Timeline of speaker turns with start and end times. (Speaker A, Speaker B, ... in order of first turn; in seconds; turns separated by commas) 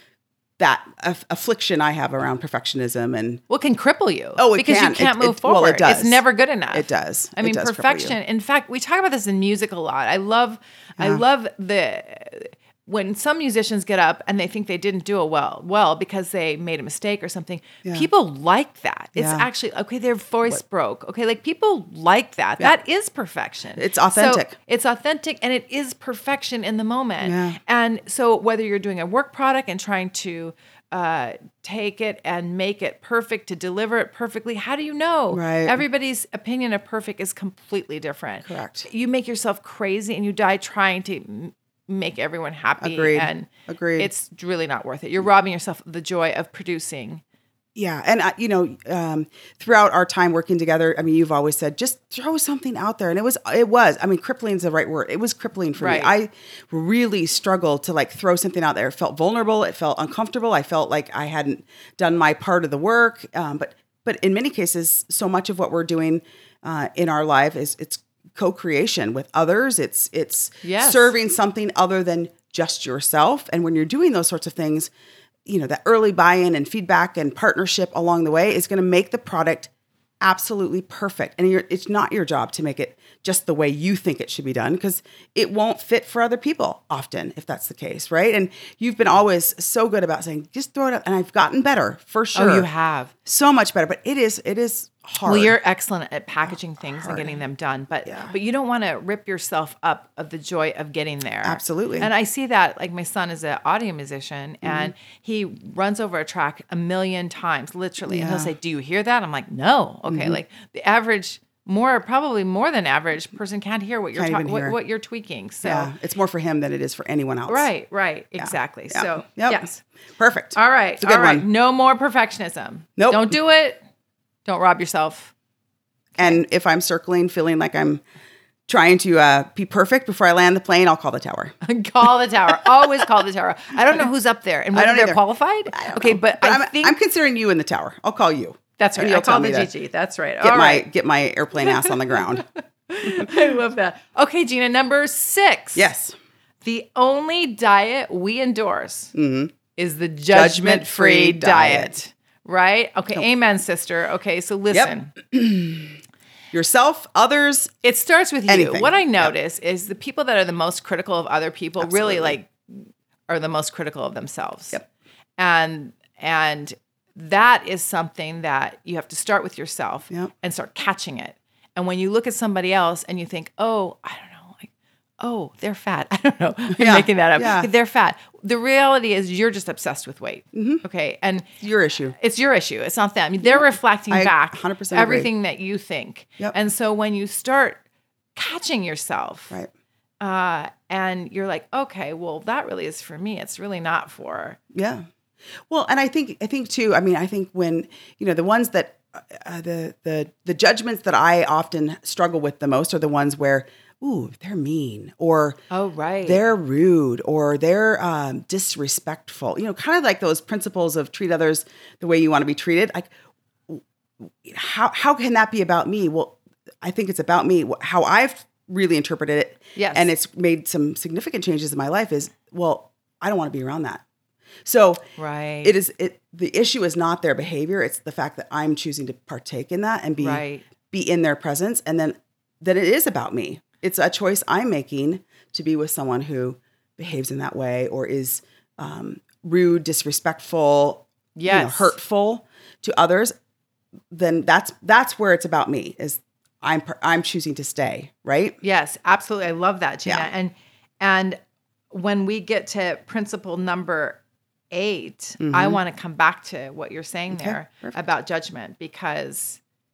Speaker A: 0.6-3.4, Speaker B: 3.5-47.2, Speaker A: 4.4-8.2, Speaker A: 11.0-11.2, Speaker A: 19.2-19.5, Speaker A: 23.8-24.5, Speaker A: 27.2-27.6, Speaker A: 35.3-35.8, Speaker A: 38.5-38.9, Speaker A: 42.8-44.1, Speaker A: 47.8-74.9, Speaker B: 55.8-56.1, Speaker B: 70.6-71.2, Speaker A: 75.5-92.7, Speaker B: 92.3-93.1, Speaker A: 93.2-95.6, Speaker B: 95.2-115.9, Speaker A: 96.9-97.4, Speaker A: 98.1-98.3, Speaker A: 101.4-102.1, Speaker A: 104.6-104.9, Speaker A: 108.1-108.5, Speaker A: 110.1-110.4, Speaker A: 114.2-114.8, Speaker A: 115.6-117.7, Speaker B: 117.5-119.8, Speaker A: 118.4-121.5, Speaker B: 120.5-123.8, Speaker A: 123.0-123.4, Speaker B: 124.5-125.3, Speaker A: 126.2-128.0, Speaker A: 128.7-131.6, Speaker B: 131.6-136.9, Speaker A: 134.7-139.7, Speaker B: 138.8-140.9, Speaker A: 140.4-142.5, Speaker B: 141.6-145.9, Speaker A: 143.1-143.3, Speaker A: 145.8-146.2, Speaker B: 146.6-149.1, Speaker A: 149.1-149.5, Speaker B: 149.8-155.1, Speaker A: 150.3-152.0, Speaker A: 154.7-156.0, Speaker A: 156.5-157.7, Speaker B: 157.8-164.8, Speaker A: 158.5-159.3, Speaker A: 161.8-162.4, Speaker B: 165.4-181.5, Speaker A: 176.7-177.7, Speaker A: 180.5-180.8, Speaker A: 181.6-182.2, Speaker B: 182.2-187.8, Speaker A: 183.4-185.3, Speaker B: 188.3-189.6, Speaker B: 190.2-194.6, Speaker A: 194.7-195.1, Speaker A: 195.7-205.6, Speaker B: 205.7-206.4, Speaker A: 206.2-213.1, Speaker A: 213.7-224.0, Speaker B: 219.8-220.1, Speaker A: 224.7-225.0, Speaker B: 225.2-225.7, Speaker A: 225.6-243.3, Speaker B: 230.2-230.6, Speaker B: 241.4-241.9, Speaker A: 244.1-248.6, Speaker B: 248.6-251.4, Speaker B: 251.9-254.2, Speaker B: 254.7-259.6, Speaker A: 255.4-255.8, Speaker A: 257.3-258.0